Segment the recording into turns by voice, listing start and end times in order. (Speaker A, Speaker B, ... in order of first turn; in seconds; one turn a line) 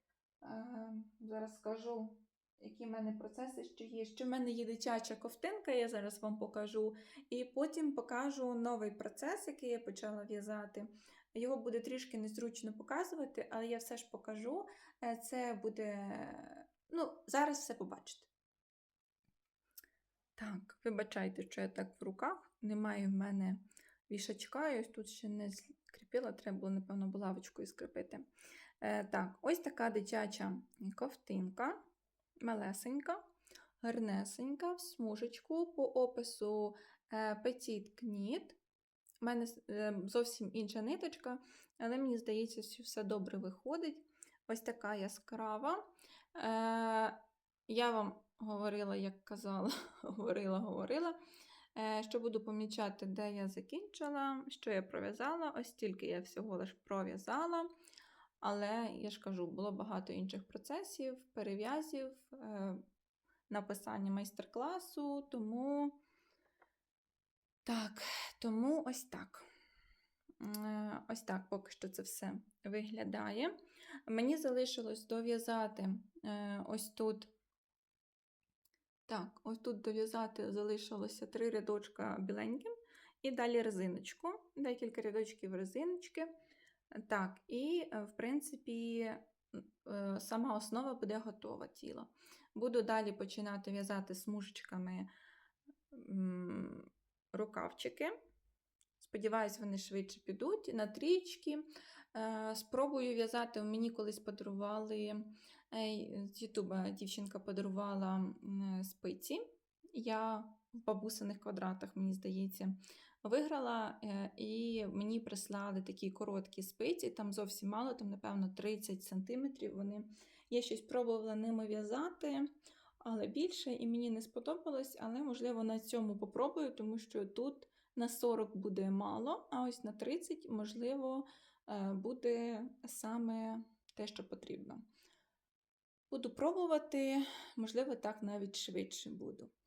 Speaker A: 0.4-18.3
Speaker A: 20.4-28.2
Speaker A: 28.8-31.8
Speaker A: 32.4-33.2
Speaker A: 33.8-38.6
Speaker A: 39.2-45.8
Speaker A: 46.4-47.2
Speaker A: 47.7-51.1
Speaker A: 51.7-57.7
Speaker A: 58.4-62.8
Speaker A: 63.5-66.0
Speaker A: 67.6-69.5
Speaker A: 70.4-73.5
Speaker A: 74.1-77.3
Speaker A: 79.1-82.7
Speaker A: 83.2-86.3
Speaker A: 87.0-95.1
Speaker A: 95.9-98.1
Speaker A: 99.0-109.4
Speaker A: 109.9-122.5
Speaker A: 123.0-134.8
Speaker A: 136.1-139.5